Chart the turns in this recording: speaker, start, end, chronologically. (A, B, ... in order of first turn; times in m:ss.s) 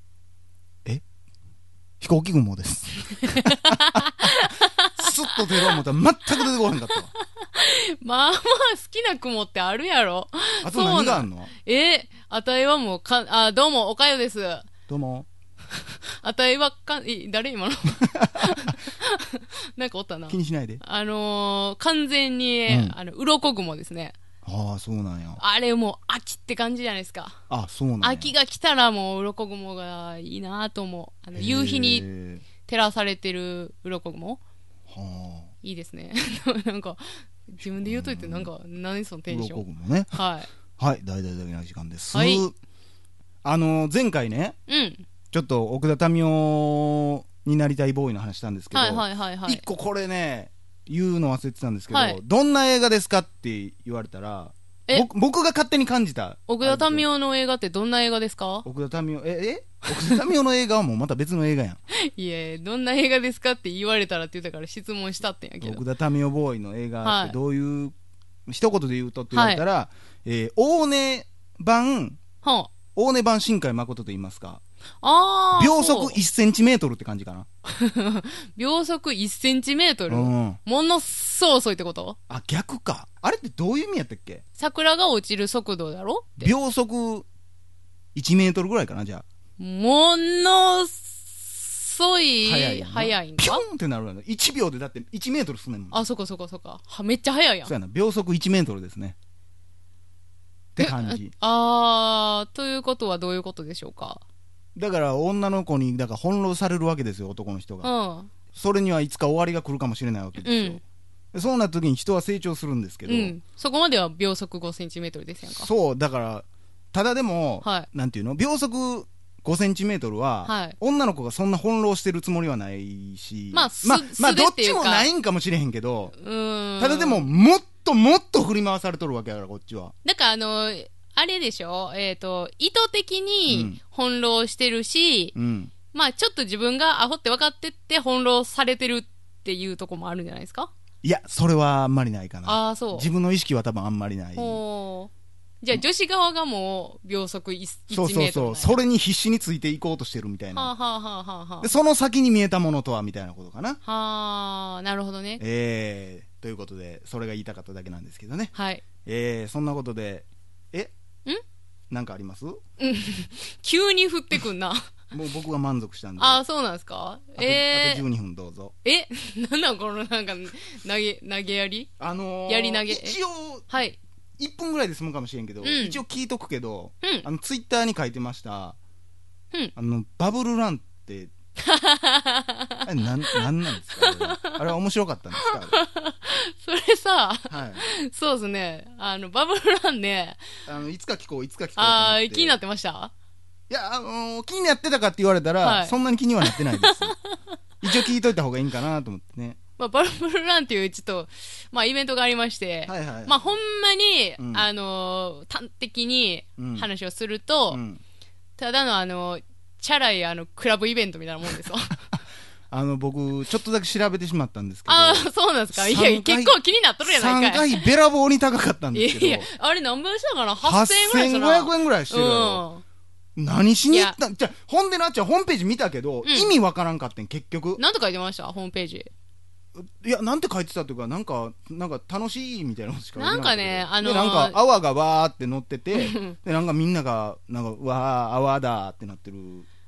0:02.0-0:04.2 A
0:03.4-0:05.8 B
0:05.0-0:07.1 A
0:06.9-0:14.7 B
0:10.6-0:11.5 A
0:14.9-0:15.3 A
0:16.2-0:24.1 B
0:18.2-0:18.7 A
0:20.3-0:20.8 A
0:22.7-0:22.9 A
0:24.4-0:25.4 A
0:25.4-0:27.4 B
0:27.5-0:28.3 A
0:28.0-0:32.0 B
0:31.3-0:32.4 A
0:32.6-0:34.4 B
0:34.9-0:35.5 A
0:35.6-0:39.6 B
0:37.7-0:38.5 A
0:39.3-0:40.2 A
0:40.1-0:40.5 B
0:40.8-0:42.5 A
0:42.1-0:42.4 B
0:43.4-0:44.6 A
0:44.7-0:45.0 B
0:45.3-0:57.0 A
0:48.7-0:49.6 B
0:51.9-0:52.2 B
0:56.5-0:58.7 B
0:58.6-1:01.8 A
1:01.9-1:05.8 B
1:05.6-1:07.9 A
1:07.0-1:07.3 B
1:08.5-1:12.2 A
1:09.3-1:09.6 B
1:12.4-1:12.7 B
1:12.9-1:14.6 A
1:15.0-1:16.2 B
1:15.6-1:17.4 A
1:17.7-1:22.2 B
1:20.1-1:20.6 A
1:22.3-1:24.4 A
1:24.6-1:26.5 B
1:26.4-1:27.3 A
1:28.1-1:29.2 A
1:29.6-1:33.6 B
1:32.4-1:36.0 A
1:35.9-1:37.7 B
1:37.6-1:39.2 A
1:40.8-1:41.3 A
1:40.8-1:44.2 B
1:44.8-1:47.9 A
1:47.8-1:48.3 B
1:48.5-1:50.8 A
1:50.4-1:50.8 B
1:51.3-1:53.3 A
1:53.1-1:55.7 B
1:55.5-2:06.2 A
1:57.6-1:57.9 B
2:00.4-2:00.8 B
2:03.5-2:05.1 B
2:06.2-2:07.3 B
2:06.8-2:09.9 A
2:10.0-2:15.3 B
2:13.5-2:13.8 A
2:15.3-2:15.7 A
2:15.9-2:20.7 B
2:21.0-2:24.6 A
2:22.4-2:23.1 B
2:24.3-2:25.1 B
2:25.6-2:28.8 B
2:27.9-2:30.7 A
2:30.5-2:31.7 B
2:31.6-2:33.8 A
2:33.8-2:35.4 B
2:35.4-2:38.5 A
2:38.5-2:38.8 B
2:39.0-2:40.9 A
2:41.9-2:42.6 A
2:42.8-2:44.9 B
2:45.1-2:46.4 A
2:46.2-2:48.0 B
2:47.4-2:48.7 A
2:48.8-2:51.9 B
2:52.0-2:53.7 A
2:52.5-2:53.2 B
2:53.7-2:54.0 B
2:54.4-2:58.8 A
2:55.6-2:56.0 B
2:59.8-3:01.3 A
3:01.6-3:04.6 B
3:02.8-3:05.8 A
3:05.4-3:10.5 B
3:07.5-3:07.8 A
3:10.6-3:12.6 A
3:11.8-3:13.1 B
3:13.7-3:17.2 A
3:15.6-3:17.5 B
3:17.8-3:19.6 A
3:19.8-3:27.8 B
3:22.9-3:23.6 A
3:24.4-3:24.6 A
3:26.6-3:26.9 A
3:27.7-3:28.0 A
3:28.6-3:32.0 B
3:32.7-3:39.5 A
3:34.9-3:37.9 B
3:38.9-3:42.8 B
3:40.6-3:42.6 A
3:43.4-3:47.8 A
3:43.9-3:44.2 B
3:46.2-3:46.5 B
3:47.8-3:49.1 B
3:49.8-3:59.7 A
3:53.2-3:54.6 B
3:55.9-3:56.4 B